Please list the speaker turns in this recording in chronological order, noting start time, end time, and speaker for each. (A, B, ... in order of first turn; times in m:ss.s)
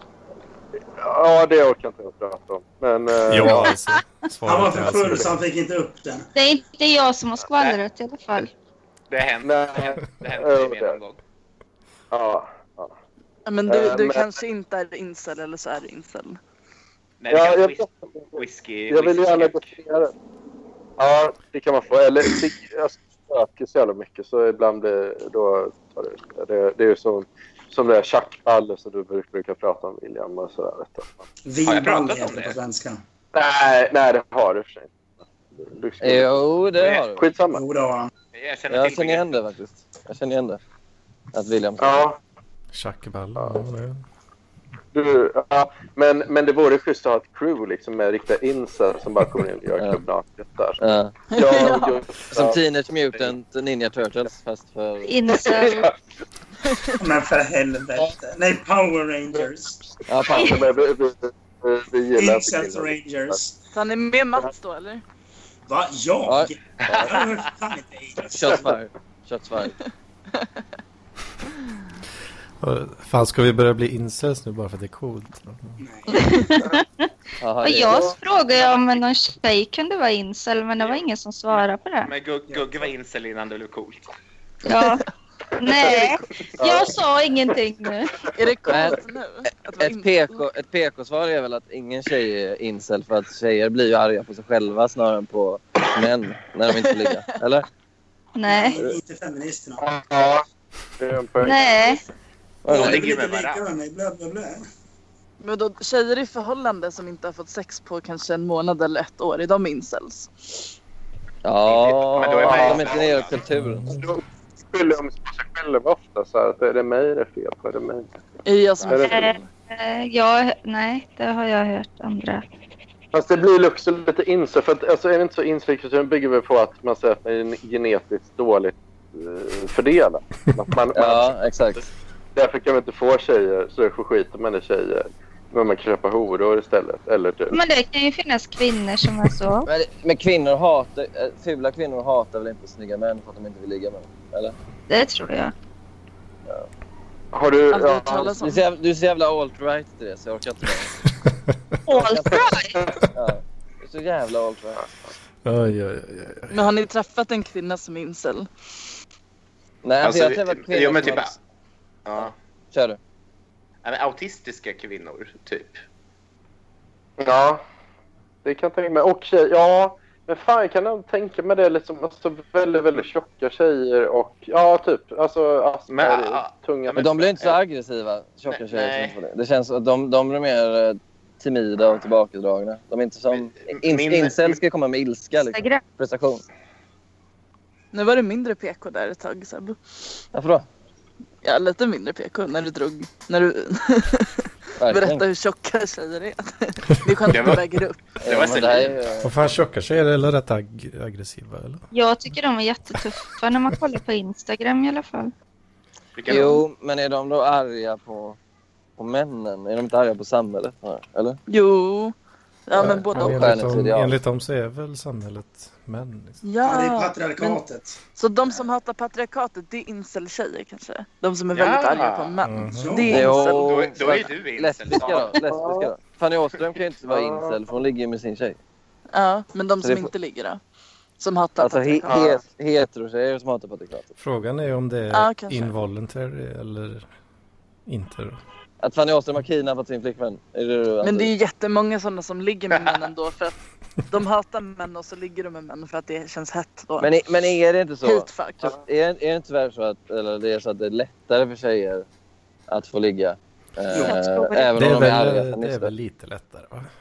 0:00.9-0:03.8 A
0:03.3-0:05.4 B
0:04.5-0:06.3 C
0:06.4-0:08.5 D
0:09.1-0:11.2 E
0:09.4-0:11.0 A
0:12.1-0:12.9 A
0:13.5-0:16.4 F
0:13.7-0:14.2 A
0:17.2-0:19.6 E
0:17.3-0:20.1 A
0:21.0-0:31.2 A
0:31.4-0:33.0 C
0:31.7-0:32.6 E
0:33.3-0:34.9 A
0:35.5-0:36.5 A
0:36.0-0:37.3 G
0:37.1-0:37.6 A
0:37.5-0:38.1 C
0:38.3-0:39.3 E
0:38.7-0:40.6 G
0:41.3-0:42.0 G
0:41.8-0:42.2 A
0:42.7-0:44.0 B
0:43.4-0:43.6 A
0:44.9-0:52.6 A
0:50.8-0:51.2 G
0:51.3-0:52.0 F
0:52.3-0:55.1 G
0:55.0-0:55.9 D
0:55.4-0:55.9 A
0:56.7-0:57.0 F
0:57.0-0:59.8 C
1:00.1-1:00.7 G
1:00.2-1:03.4 A
1:00.3-1:00.6 D
1:02.2-1:03.6 C
1:03.7-1:05.0 F
1:05.7-1:08.7 C
1:06.3-1:06.5 G
1:06.9-1:07.3 E
1:08.3-1:09.8 G
1:12.6-1:15.8 B
1:15.8-1:16.2 C
1:16.1-1:17.1 D
1:17.4-1:18.0 G
1:17.6-1:22.1 D
1:21.6-1:24.0 E
1:24.6-1:25.0 D
1:25.6-1:28.3 D
1:26.6-1:27.0 A
1:28.3-1:30.4 F
1:28.7-1:29.0 G
1:29.8-1:37.7 G
1:36.7-1:37.2 F
1:38.4-1:38.8 D
1:38.5-1:39.9 C
1:39.8-1:40.4 A
1:41.0-1:41.7 A
1:41.4-1:42.0 D
1:41.6-1:42.0 F
1:42.6-1:43.0 G
1:42.7-1:43.6 E
1:42.7-1:44.7 C
1:45.4-1:50.5 F
1:51.4-1:54.0 G
1:51.6-1:53.4 E
1:52.4-1:53.1 A
1:53.5-1:54.1 B
1:53.9-1:54.2 A
1:54.7-1:58.1 A
1:58.4-1:59.5 F
1:58.9-1:59.3 A
1:59.0-2:02.4 D
2:03.1-2:11.4 A
2:11.0-2:11.9 G
2:12.4-2:17.6 A
2:17.5-2:19.7 D
2:19.7-2:24.6 G
2:24.9-2:25.5 D
2:27.3-2:28.3 A
2:27.7-2:28.7 F
2:28.1-2:31.0 G
2:31.3-2:31.5 B
2:31.9-2:32.9 D
2:31.9-2:32.6 G
2:33.1-2:34.9 G
2:35.4-2:36.6 B
2:36.5-2:38.5 F
2:39.8-2:41.4 G
2:40.0-2:41.4 E
2:42.1-2:42.3 E
2:42.7-2:43.0 G
2:43.8-2:45.8 E
2:47.2-2:47.6 A
2:48.4-2:57.1 A
2:55.9-2:57.6 E
2:57.0-3:06.4 G
2:58.5-2:59.2 E
3:03.3-3:04.6 E
3:05.5-3:05.8 D
3:07.9-3:09.8 F
3:10.3-3:10.7 G
3:11.4-3:18.0 F
3:14.8-3:15.2 G
3:17.3-3:17.6 E
3:18.2-3:19.4 G
3:18.2-3:19.1 E
3:19.2-3:21.8 B
3:21.9-3:25.3 D
3:26.2-3:26.6 E
3:26.3-3:28.4 G
3:29.0-3:31.4 G
3:31.5-3:32.2 F
3:32.7-3:33.6 F
3:32.8-3:34.2 G
3:32.9-3:36.4 B
3:36.4-3:37.6 F
3:36.6-3:38.0 C
3:38.2-3:43.8 F
3:41.5-3:42.4 E
3:42.4-3:43.0 B
3:42.8-3:43.3 C
3:43.1-3:48.6 G
3:43.2-3:45.4 E
3:45.5-3:45.9 A
3:47.1-3:47.6 A
3:49.1-3:50.6 F
3:49.8-3:50.1 G
3:51.2-3:52.2 F
3:51.6-3:54.1 G
3:52.1-3:52.4 A
3:54.2-3:57.1 B
3:55.1-3:55.8 F
3:57.9-3:58.4 B
3:58.8-4:01.3 G
4:01.0-4:03.6 F
4:04.1-4:07.1 F
4:07.0-4:12.1 G
4:08.0-4:08.8 F
4:12.7-4:15.9 G
4:14.0-4:14.8 D
4:14.8-4:16.9 B